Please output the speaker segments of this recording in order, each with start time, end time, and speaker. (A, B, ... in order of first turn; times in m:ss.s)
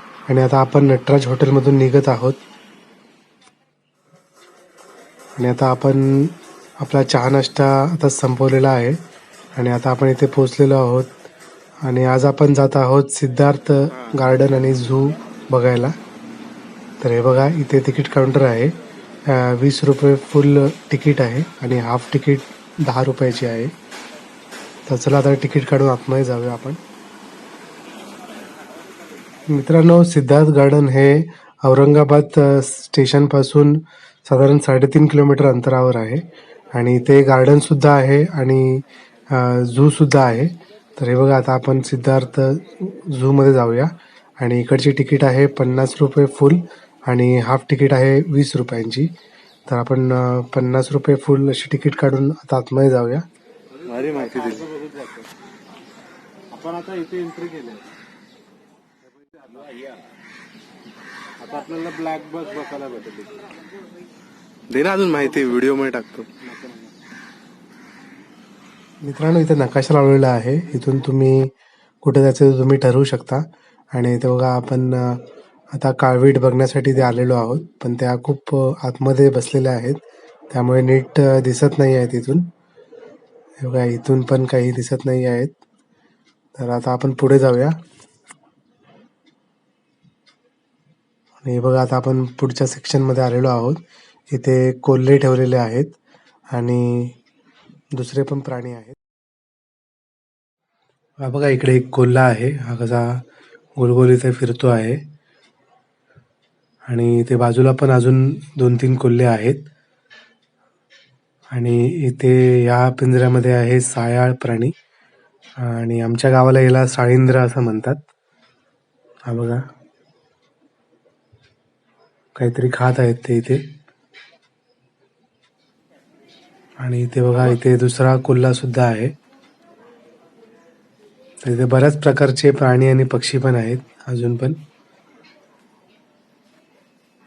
0:00.3-0:02.4 A
0:05.4-0:09.0 A
0:09.5-0:11.2 A
0:11.8-0:16.0 A
0:17.0-0:23.7 A
0:24.8-0:26.8 A
0:29.4-0:49.1 A
0:49.7-0:53.2 A
0:53.8-0:55.3 B
0:54.2-0:54.5 A
0:56.5-0:57.9 B
0:59.3-0:59.8 B
1:01.4-1:03.5 B
1:04.7-1:06.3 A
1:05.1-1:05.6 B
1:06.3-1:06.9 B
1:09.0-1:22.5 A
1:23.6-1:25.6 A
1:26.6-1:27.8 A
1:31.4-1:36.0 A
1:36.5-1:37.2 A
1:37.9-1:39.0 A
1:41.2-1:43.2 A
1:43.8-1:45.0 A
1:46.9-1:49.7 A
1:51.5-1:54.7 A
1:55.6-1:58.0 A
1:59.2-1:59.7 A
2:02.3-2:03.7 A
2:06.8-2:09.1 A
2:11.4-2:14.6 A